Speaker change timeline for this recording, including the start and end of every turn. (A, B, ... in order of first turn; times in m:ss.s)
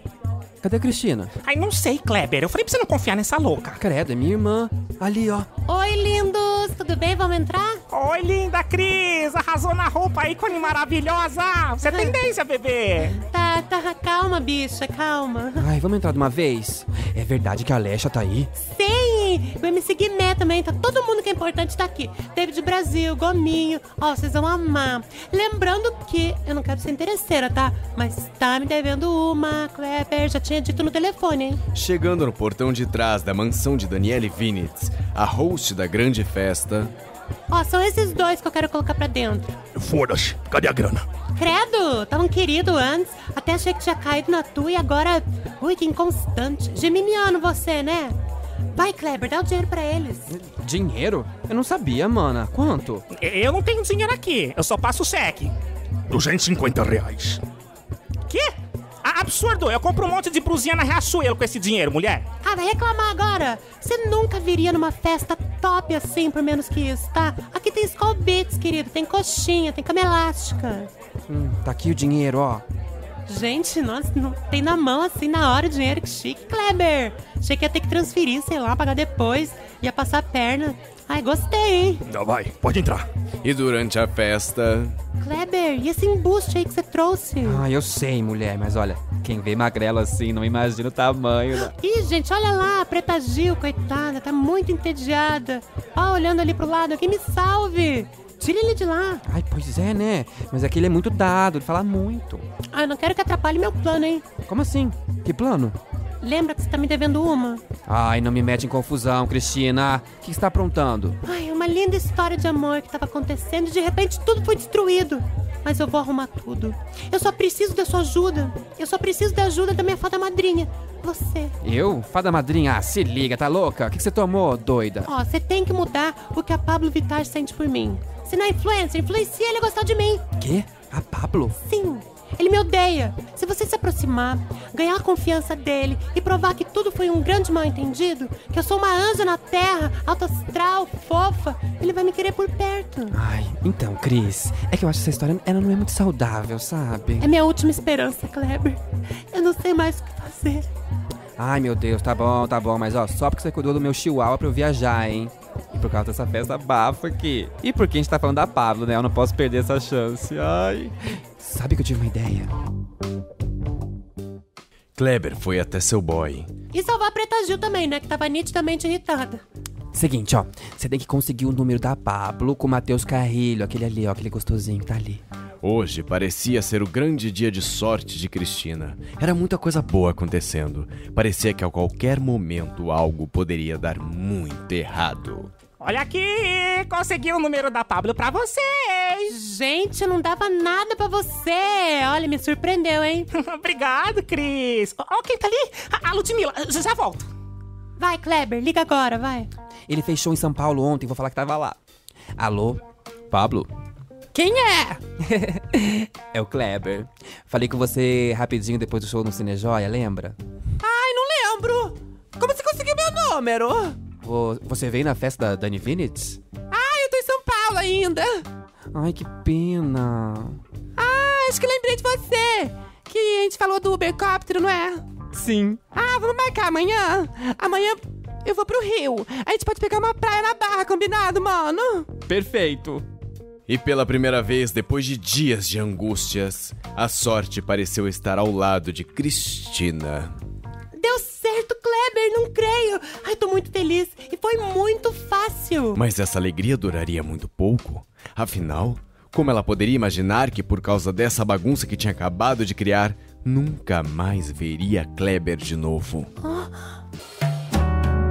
0:00.6-0:01.3 A
0:01.4-0:03.8 B
0:03.8-0:05.5 A
0:05.6-0:07.8 C
0:07.9-0:13.2 B
0:11.8-0:12.1 C
0:13.1-0:15.6 C
0:15.6-0:18.5 A
0:18.6-0:31.6 C
0:31.7-0:36.9 D
0:37.5-0:39.5 C
0:39.7-0:41.0 E
0:41.3-0:48.2 C
0:48.7-0:50.3 C
0:50.3-0:53.0 A
0:53.1-0:55.5 B
0:56.1-0:57.4 E
0:58.3-1:02.2 B
1:02.4-1:10.9 C
1:11.3-1:12.6 A
1:13.2-1:22.0 C
1:22.1-1:23.0 E
1:23.4-1:25.0 D
1:25.2-1:27.6 C
1:27.4-1:31.7 A
1:31.6-1:39.2 C
1:39.3-1:42.4 A
1:42.7-1:44.2 C
1:44.5-1:45.8 A
1:46.2-1:47.6 C
1:47.9-1:51.2 A
1:51.2-2:01.5 C
2:01.6-2:05.1 A
2:05.0-2:10.2 C
2:10.4-2:11.6 A
2:11.6-2:23.2 C
2:23.1-2:27.3 A
2:27.2-2:30.7 C
2:31.4-2:42.5 A
2:45.0-2:46.5 D
2:46.7-2:49.4 C
2:49.9-2:55.2 A
2:55.6-3:05.5 D
3:05.8-3:09.3 B
3:09.3-3:13.3 C
3:13.3-3:17.3 B
3:18.0-3:19.5 C
3:19.9-3:21.8 A
3:22.4-3:23.7 A
3:24.3-3:53.0 A
3:53.7-4:00.3 D
4:01.0-4:06.0 C
4:05.9-4:16.3 D
4:16.4-4:16.9 C